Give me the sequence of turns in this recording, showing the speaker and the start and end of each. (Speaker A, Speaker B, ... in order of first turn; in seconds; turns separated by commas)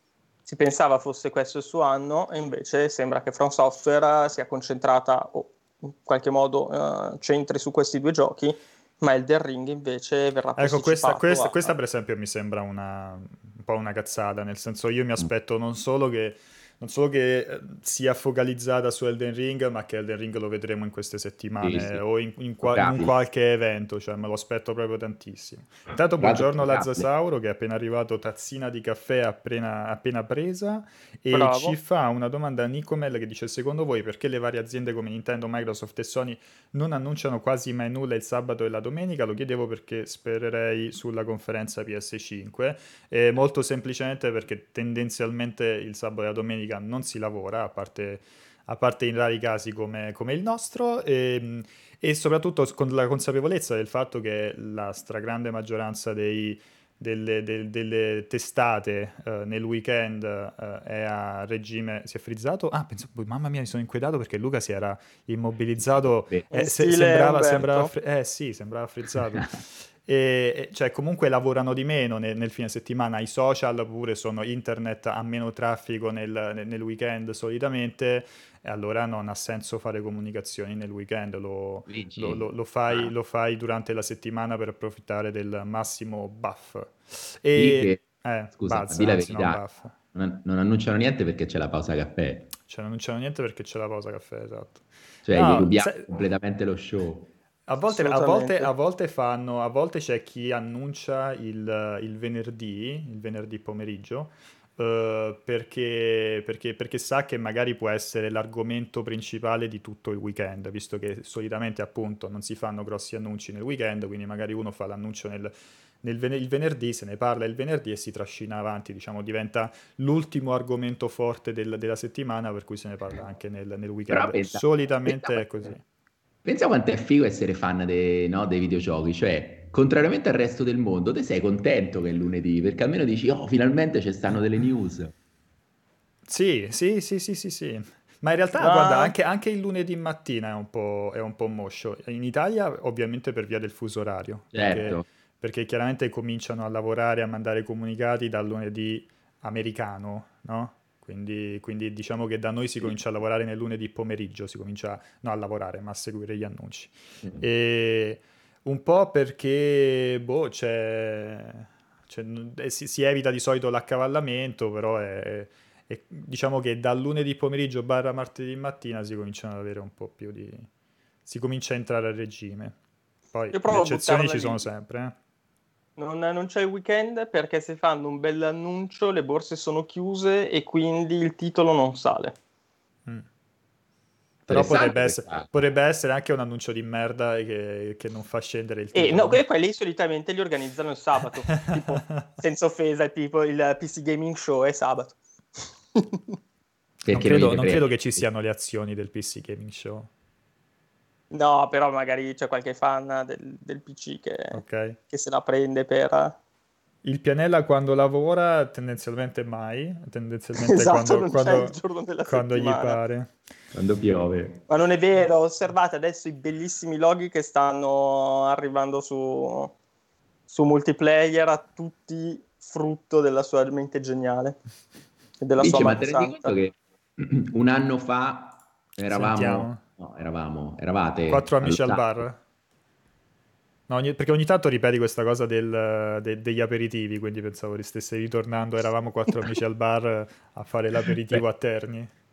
Speaker A: 0.5-11.7, Speaker B: 10.6-90.0, Speaker C: 21.6-22.0, Speaker C: 22.6-23.1, Speaker C: 26.2-27.1, Speaker A: 31.3-31.8, Speaker C: 65.8-66.5, Speaker A: 66.5-67.9, Speaker C: 81.9-83.1, Speaker C: 87.5-88.0, Speaker C: 88.5-92.5, Speaker B: 92.6-96.1, Speaker C: 95.2-97.3, Speaker B: 97.7-125.8, Speaker A: 97.9-98.7, Speaker C: 124.1-125.7, Speaker C: 126.4-135.1, Speaker B: 136.3-170.7, Speaker A: 138.6-139.1, Speaker C: 144.5-145.1, Speaker B: 171.2-172.8, Speaker B: 173.3-175.2, Speaker A: 173.5-174.7, Speaker A: 176.0-182.4, Speaker C: 184.5-185.6, Speaker B: 184.5-189.4, Speaker A: 188.9-196.3, Speaker B: 191.7-192.3, Speaker C: 197.1-198.2, Speaker B: 197.1-200.1, Speaker A: 201.3-206.4, Speaker B: 204.5-205.0, Speaker B: 207.0-213.4, Speaker A: 210.6-213.0, Speaker C: 213.7-214.6, Speaker A: 214.7-219.7, Speaker A: 220.5-224.6, Speaker A: 225.4-226.5, Speaker C: 225.6-232.2, Speaker B: 229.1-229.8, Speaker B: 231.3-232.4, Speaker B: 233.9-242.1